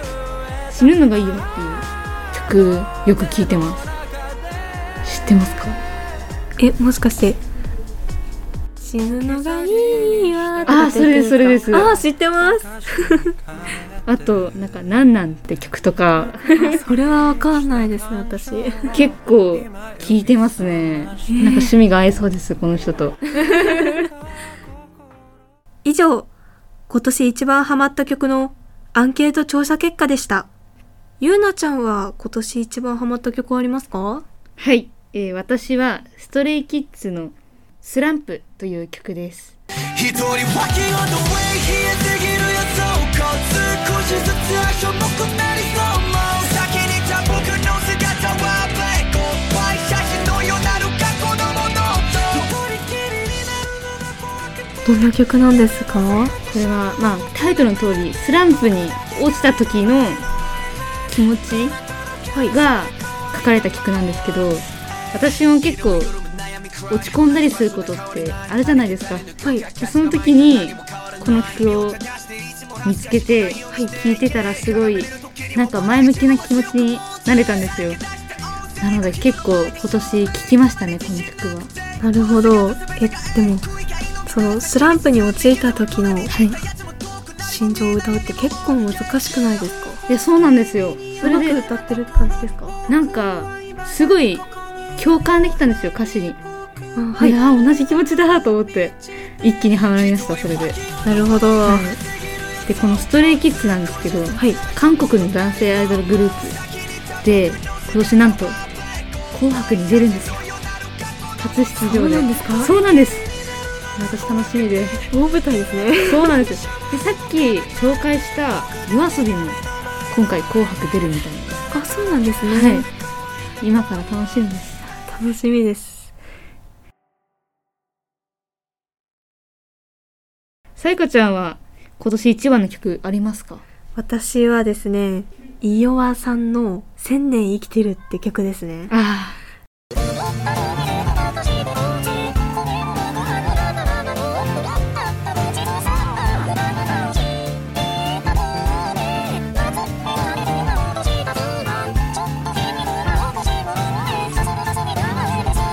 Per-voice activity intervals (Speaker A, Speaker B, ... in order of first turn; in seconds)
Speaker A: 0.7-3.9, 5.0-5.8, 10.7-11.9, 14.1-16.8, 18.9-24.0, 34.6-39.5, 56.5-60.2, 61.1-61.8, 62.5-66.2, 66.9-69.3, 69.8-72.0, 72.8-78.0, 78.8-81.7, 86.3-86.6, 90.1-91.6, 92.9-96.4, 97.2-100.8, 101.7-102.0, 102.7-106.6, 107.2-108.6, 109.3-110.4, 111.4-113.3, 114.0-115.0, 116.1-121.6, 122.5-122.9, 123.6-124.8, 130.8-133.6, 138.9-139.4
Speaker B: 6.6-7.4, 8.8-13.3, 16.6-18.9, 21.3-21.8, 23.4-24.1, 25.8-26.3, 26.9-30.5, 31.2-34.2, 54.9-56.4, 69.4-69.7, 82.0-83.7, 84.3-86.3, 87.4-90.0, 91.2-92.8, 97.0-97.4, 101.0-101.9, 111.8-112.7, 115.1-116.4, 121.7-122.9, 124.9-126.1, 133.9-138.9
Speaker C: 39.9-53.3